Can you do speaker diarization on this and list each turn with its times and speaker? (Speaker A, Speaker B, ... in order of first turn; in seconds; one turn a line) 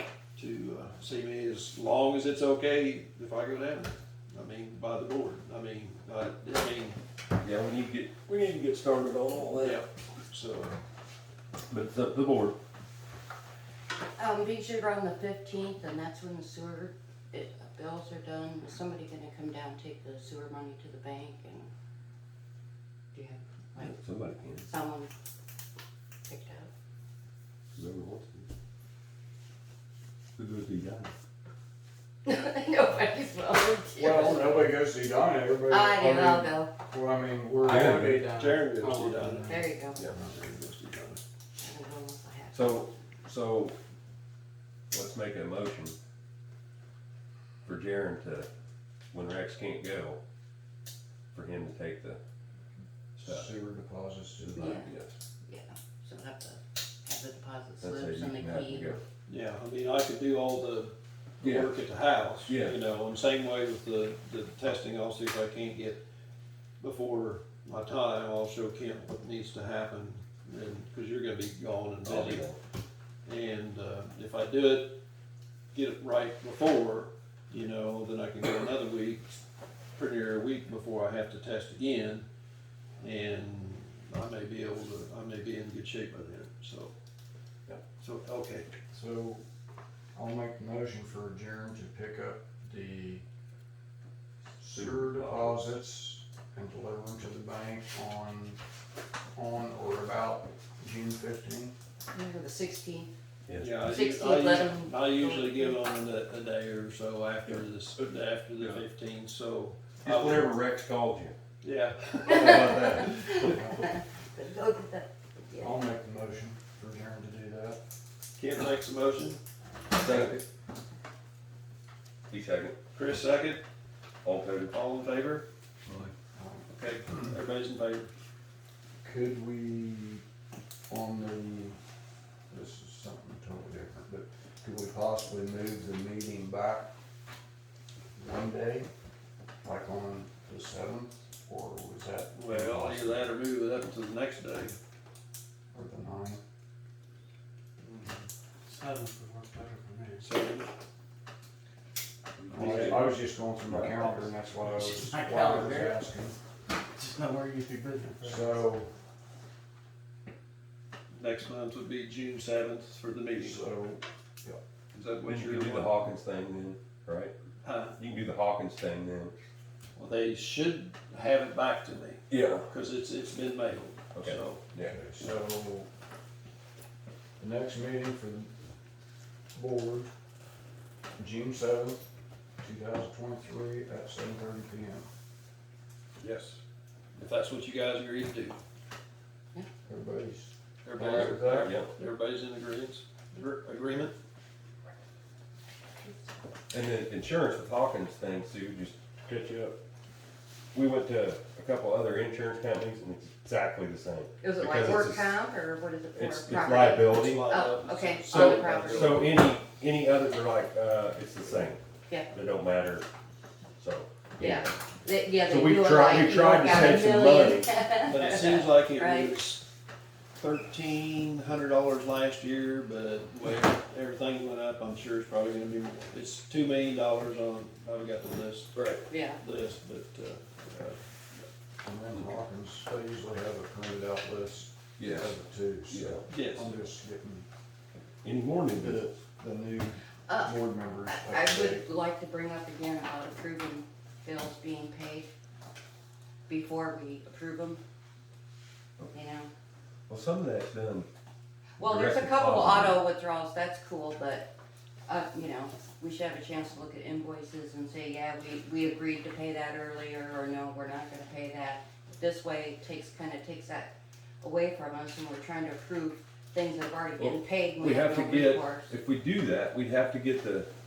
Speaker A: 0.3-7.0
Speaker B: 7.4-9.8
Speaker A: 9.6-10.8
Speaker B: 11.7-12.6
Speaker C: 14.2-21.7
Speaker C: 23.1-25.1
Speaker B: 23.8-24.6
Speaker C: 26.3-26.7
Speaker B: 27.7-28.5
Speaker B: 30.4-31.1
Speaker C: 32.2-34.6
Speaker D: 34.0-40.3
Speaker C: 35.7-36.7
Speaker B: 37.6-38.2
Speaker A: 38.1-41.2
Speaker C: 39.4-40.0
Speaker C: 41.6-42.8
Speaker B: 42.5-43.7
Speaker B: 44.9-45.9
Speaker B: 47.6-48.5
Speaker B: 49.1-50.2
Speaker B: 51.3-52.2
Speaker B: 53.1-53.5
Speaker D: 53.2-54.9
Speaker B: 54.5-55.1
Speaker C: 54.6-54.9
Speaker C: 55.4-59.0
Speaker B: 57.8-59.0
Speaker A: 59.3-66.0
Speaker B: 61.4-61.7
Speaker B: 62.5-62.8
Speaker A: 66.8-72.5
Speaker B: 72.0-72.6
Speaker A: 73.2-74.9
Speaker A: 75.7-79.2
Speaker A: 80.0-82.2
Speaker A: 83.0-86.9
Speaker A: 88.0-88.7
Speaker D: 88.9-89.4
Speaker D: 90.1-93.2
Speaker D: 94.6-98.6
Speaker B: 94.7-95.5
Speaker D: 99.3-101.8
Speaker C: 102.1-103.1
Speaker B: 103.5-103.8
Speaker A: 103.6-110.5
Speaker C: 103.8-105.8
Speaker B: 110.0-111.3
Speaker A: 111.6-113.0
Speaker B: 112.3-113.5
Speaker C: 112.3-115.8
Speaker D: 113.4-114.0
Speaker D: 115.6-117.8
Speaker A: 118.4-119.4
Speaker B: 119.9-120.4
Speaker A: 120.0-120.3
Speaker B: 122.3-122.8
Speaker A: 122.9-123.6
Speaker B: 124.2-124.7
Speaker A: 124.7-125.5
Speaker D: 126.3-127.3
Speaker A: 126.7-128.1
Speaker D: 129.0-130.2
Speaker D: 130.9-131.8
Speaker D: 132.5-136.9
Speaker D: 138.2-138.9
Speaker D: 139.6-143.3
Speaker A: 142.3-144.8
Speaker D: 145.7-146.4
Speaker A: 147.8-148.2
Speaker E: 148.6-150.2
Speaker A: 150.2-150.7
Speaker B: 152.4-153.1
Speaker A: 152.5-153.1
Speaker D: 152.5-156.3
Speaker B: 153.7-153.9
Speaker E: 154.6-156.0
Speaker E: 156.7-158.6
Speaker D: 158.2-158.9
Speaker A: 161.1-163.6
Speaker D: 163.3-164.6
Speaker A: 164.9-166.0
Speaker B: 165.2-167.3
Speaker A: 167.6-167.9
Speaker B: 168.0-169.3
Speaker A: 169.9-174.6
Speaker B: 172.3-172.7
Speaker B: 174.1-174.9
Speaker D: 174.8-175.9
Speaker D: 177.4-178.5
Speaker D: 179.5-180.1
Speaker D: 181.2-182.0
Speaker D: 182.6-185.1
Speaker A: 186.2-186.6
Speaker A: 187.2-188.6
Speaker D: 189.8-191.7
Speaker A: 190.8-194.1
Speaker B: 191.1-191.9
Speaker B: 196.7-199.0
Speaker B: 200.7-205.3
Speaker C: 204.4-209.3
Speaker B: 206.1-207.5
Speaker A: 206.8-209.3
Speaker B: 208.3-211.8
Speaker B: 212.3-213.1
Speaker B: 213.8-214.7
Speaker C: 214.4-219.3
Speaker B: 215.4-217.8
Speaker A: 218.0-219.6
Speaker A: 220.4-228.8
Speaker B: 228.7-229.0
Speaker C: 229.1-229.4
Speaker A: 229.4-231.0
Speaker D: 231.8-237.5
Speaker B: 235.0-235.3
Speaker B: 235.9-236.2
Speaker A: 236.3-236.7
Speaker B: 238.2-239.0
Speaker D: 238.8-241.9
Speaker C: 240.3-245.3
Speaker C: 246.5-247.8
Speaker C: 249.1-249.5
Speaker B: 250.1-251.1
Speaker C: 251.8-254.5
Speaker B: 251.8-253.0
Speaker C: 255.1-268.9
Speaker B: 267.2-270.7